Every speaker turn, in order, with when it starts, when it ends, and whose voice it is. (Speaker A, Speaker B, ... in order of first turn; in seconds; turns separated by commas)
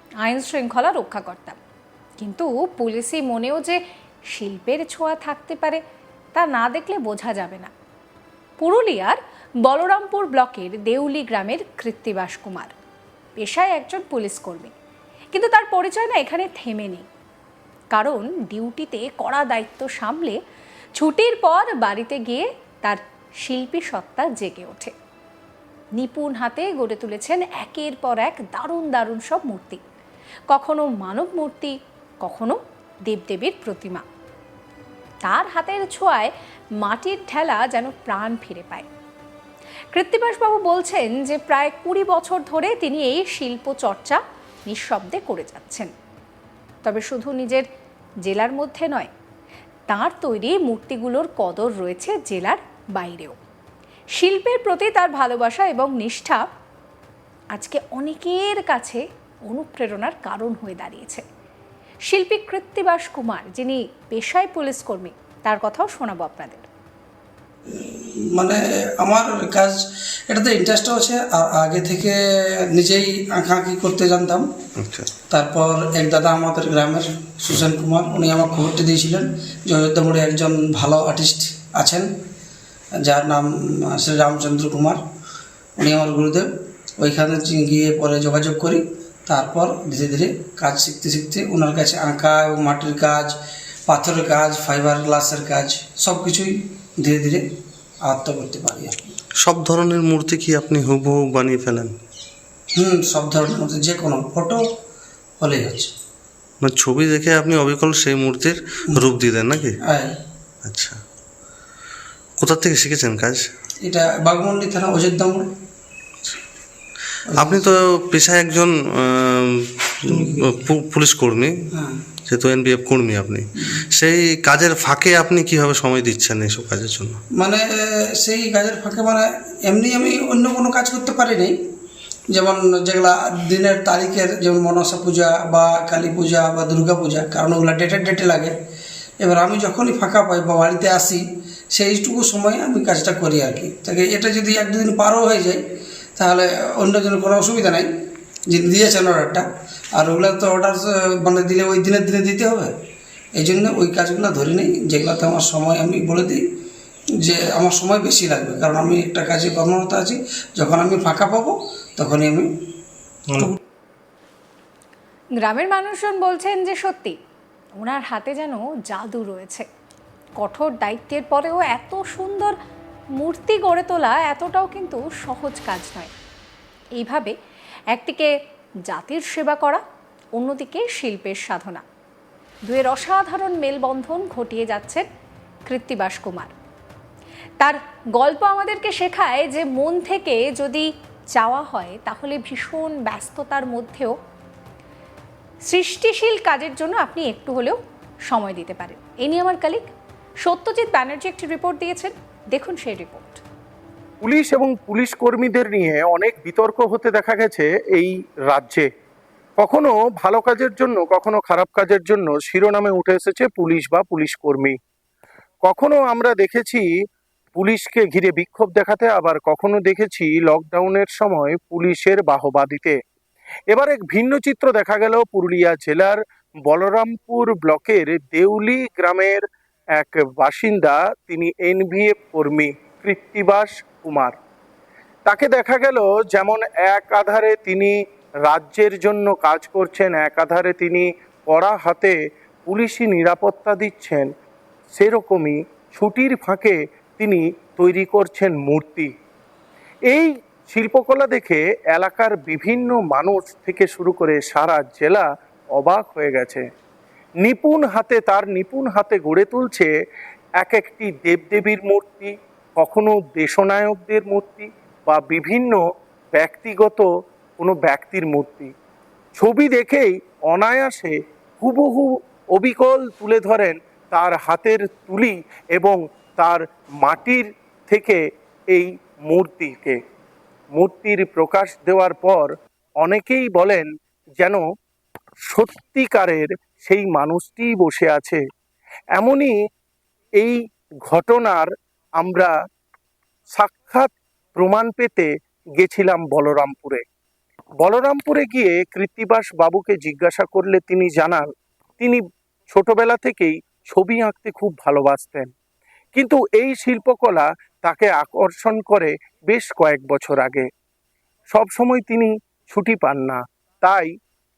Speaker A: 0.2-1.6, Speaker A: 2.2-3.8, Speaker A: 4.3-5.8, Speaker A: 6.3-7.7, Speaker A: 8.6-12.7, Speaker A: 13.4-14.7, Speaker A: 15.3-17.1, Speaker A: 17.9-20.4, Speaker A: 20.9-24.9, Speaker A: 25.9-29.8, Speaker A: 30.5-34.0, Speaker A: 35.2-38.9, Speaker A: 39.9-45.9, Speaker A: 46.8-47.7, Speaker A: 48.2-49.1, Speaker A: 49.9-53.4, Speaker A: 54.1-56.5, Speaker A: 57.5-61.2, Speaker A: 62.1-66.7, Speaker B: 67.7-74.5, Speaker C: 74.8-75.1, Speaker B: 75.3-82.1, Speaker B: 83.0-85.0, Speaker B: 85.8-93.4, Speaker B: 93.9-97.5, Speaker B: 98.0-99.2, Speaker C: 99.4-101.9, Speaker B: 102.7-104.7, Speaker B: 105.4-105.9, Speaker C: 106.6-109.8, Speaker B: 109.8-110.2, Speaker C: 110.7-111.0, Speaker C: 112.4-113.5, Speaker B: 113.8-115.4, Speaker B: 117.3-117.8, Speaker C: 117.4-121.5, Speaker B: 120.1-120.5, Speaker B: 121.7-122.0, Speaker C: 122.3-127.2, Speaker B: 127.4-131.6, Speaker B: 132.3-138.5, Speaker B: 139.2-145.6, Speaker B: 146.2-147.9, Speaker B: 148.5-152.7, Speaker B: 153.4-156.4, Speaker B: 157.2-162.5, Speaker A: 165.4-167.2, Speaker A: 167.8-169.7, Speaker A: 170.4-172.6, Speaker A: 173.2-176.1, Speaker A: 177.0-177.3, Speaker A: 177.9-178.3, Speaker A: 178.9-179.8, Speaker A: 180.4-181.8, Speaker A: 182.7-185.1, Speaker A: 185.7-186.5, Speaker A: 187.6-194.2, Speaker A: 195.7-199.9, Speaker A: 200.4-203.4, Speaker D: 204.2-208.9, Speaker D: 209.6-214.8, Speaker D: 215.6-216.8, Speaker D: 217.6-223.0, Speaker D: 223.7-229.4, Speaker D: 230.0-234.3, Speaker D: 235.3-244.3, Speaker D: 244.9-249.1, Speaker D: 250.1-256.6, Speaker D: 257.4-259.9, Speaker D: 260.6-265.8, Speaker D: 266.4-267.1, Speaker D: 267.6-268.7, Speaker D: 269.4-278.2, Speaker D: 278.7-280.0, Speaker D: 280.7-283.9, Speaker D: 285.5-288.4, Speaker D: 289.2-289.5, Speaker D: 291.1-292.5, Speaker D: 293.5-297.0, Speaker D: 297.8-301.5, Speaker D: 302.0-305.5, Speaker D: 306.1-310.7, Speaker D: 311.5-314.1